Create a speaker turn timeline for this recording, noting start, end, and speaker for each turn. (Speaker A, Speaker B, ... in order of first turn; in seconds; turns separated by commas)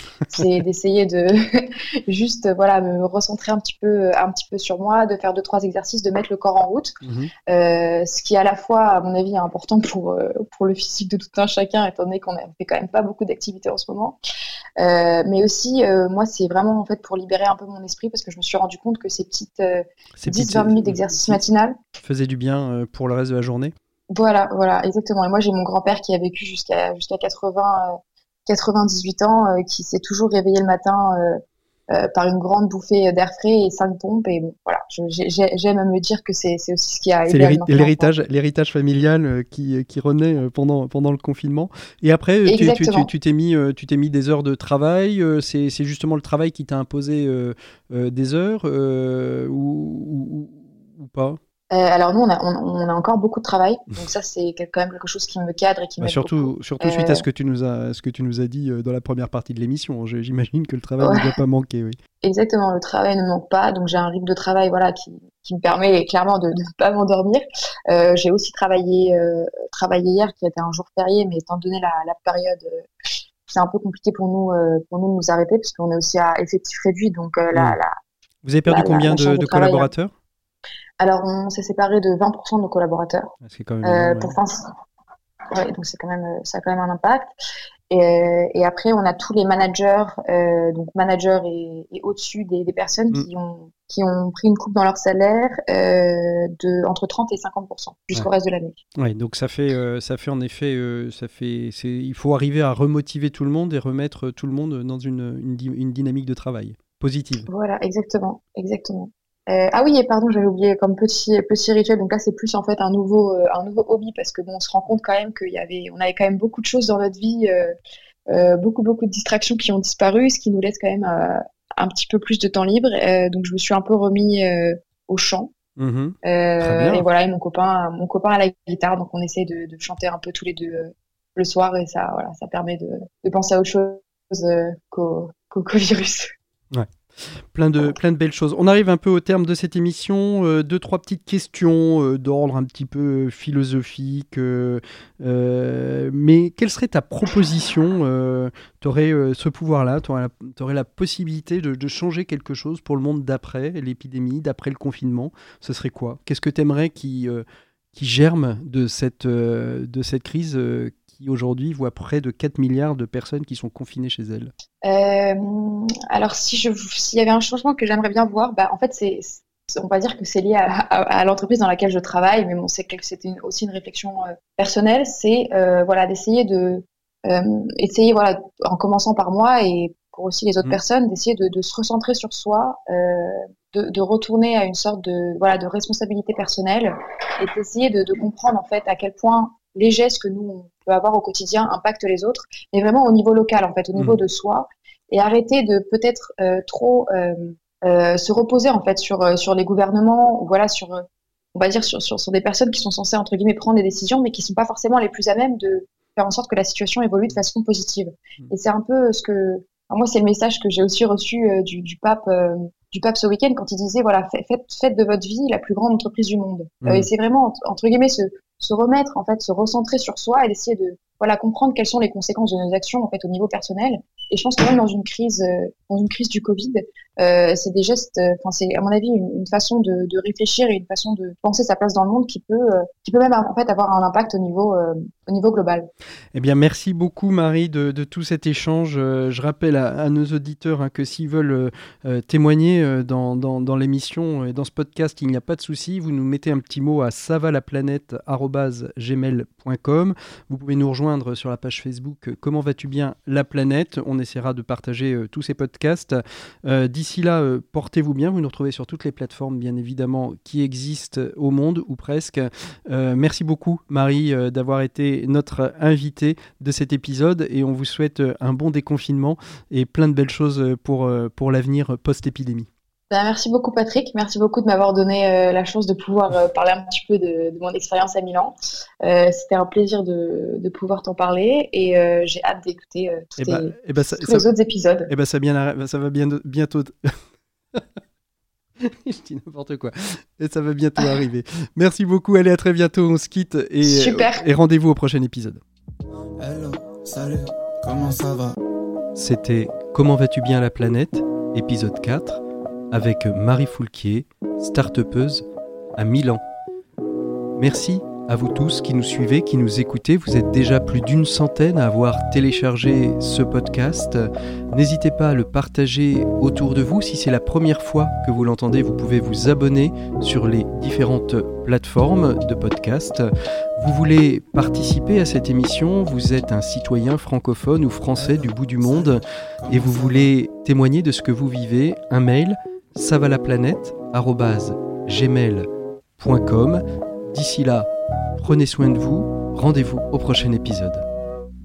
Speaker A: 0.3-14.2, Speaker B: 7.0-7.3, Speaker A: 14.8-21.8, Speaker B: 20.2-21.4, Speaker B: 22.0-23.7, Speaker A: 24.1-38.1, Speaker B: 37.3-51.4, Speaker A: 42.5-43.1, Speaker A: 51.7-57.2, Speaker B: 56.0-62.0, Speaker A: 61.0-61.3, Speaker A: 62.2-72.9, Speaker A: 73.5-78.0, Speaker B: 77.5-77.8, Speaker B: 78.4-80.1, Speaker A: 78.7-79.9, Speaker A: 81.0-83.3, Speaker B: 83.4-84.3, Speaker A: 83.8-84.7, Speaker A: 85.5-87.3, Speaker A: 87.9-98.8, Speaker B: 99.0-107.5, Speaker A: 107.5-117.7, Speaker A: 118.3-125.5, Speaker B: 125.8-127.0, Speaker A: 126.2-136.3, Speaker B: 136.7-164.5, Speaker A: 164.8-235.9, Speaker B: 193.9-194.2, Speaker B: 216.8-217.1, Speaker B: 236.3-272.7, Speaker A: 273.1-285.1, Speaker B: 283.4-284.5, Speaker B: 285.1-286.9, Speaker B: 288.8-295.6, Speaker A: 293.8-294.4, Speaker C: 296.4-298.6, Speaker B: 299.1-305.4, Speaker B: 306.0-306.4, Speaker B: 307.6-341.0, Speaker C: 328.1-330.3